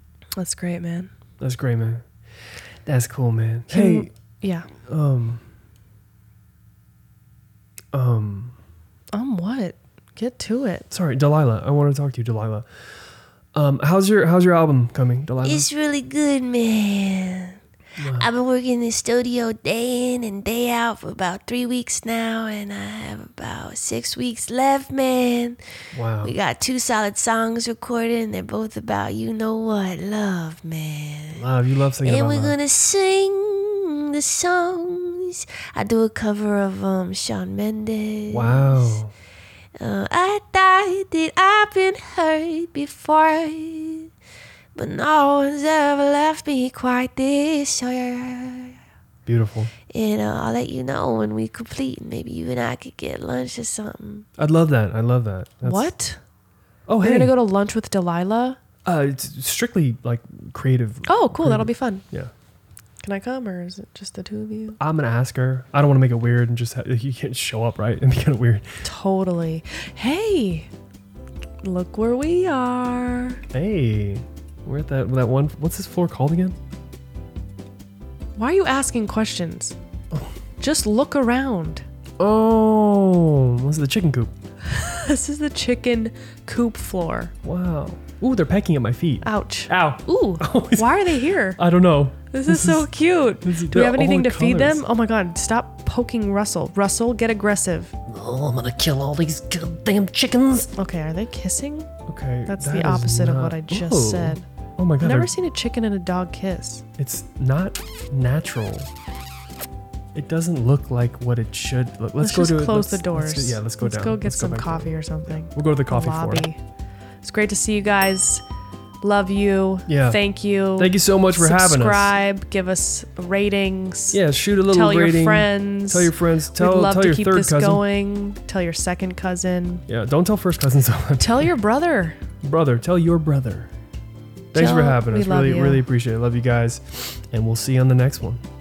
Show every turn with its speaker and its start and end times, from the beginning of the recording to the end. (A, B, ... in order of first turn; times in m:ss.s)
0:00.4-0:01.1 A
0:01.4-0:02.0 B
0:02.8-0:04.1 B
0:03.7-0:04.7 A
0:04.7-0:05.4 B
0:07.9-0:08.6 B
0:09.1-0:10.8 A
0:10.9-0:12.6 B
0:13.5-0:15.7 B
0:15.4-0:25.6 C
0:18.0-0:18.3 B
0:25.9-0:26.3 B
0:26.2-0:31.4 C
0:31.3-0:32.6 B
0:32.0-0:39.0 C
0:38.3-0:39.1 B
0:39.8-0:44.1 C
0:44.7-0:48.8 C
0:49.2-0:49.7 B
0:49.9-0:54.2 C
0:54.4-0:55.9 B
0:55.6-0:56.2 A
0:56.9-0:57.3 B
0:57.0-0:58.6 A
0:58.8-1:02.3 B
1:01.1-1:02.0 A
1:03.0-1:04.8 A
1:04.8-1:08.6 B
1:08.8-1:10.7 A
1:11.6-1:13.4 A
1:13.5-1:16.6 B
1:18.4-1:19.8 A
1:20.6-1:21.8 A
1:22.2-1:24.3 B
1:24.6-1:27.3 A
1:27.4-1:32.9 B
1:29.2-1:31.6 A
1:32.3-1:37.9 A
1:33.4-1:34.8 B
1:38.1-1:40.6 D
1:40.7-1:41.9 A
1:42.0-1:45.3 B
1:42.5-1:44.4 A
1:45.0-1:46.8 A
1:47.0-1:48.9 B
1:50.1-1:56.4 B
1:52.2-1:56.6 A
1:57.2-1:58.4 A
1:59.0-2:09.8 A
1:59.9-2:00.2 B
2:00.8-2:02.1 B
2:04.1-2:07.8 B
2:09.9-2:11.5 B
2:11.2-2:12.2 A
2:12.4-2:13.7 B
2:14.5-2:18.4 B
2:14.5-2:15.8 A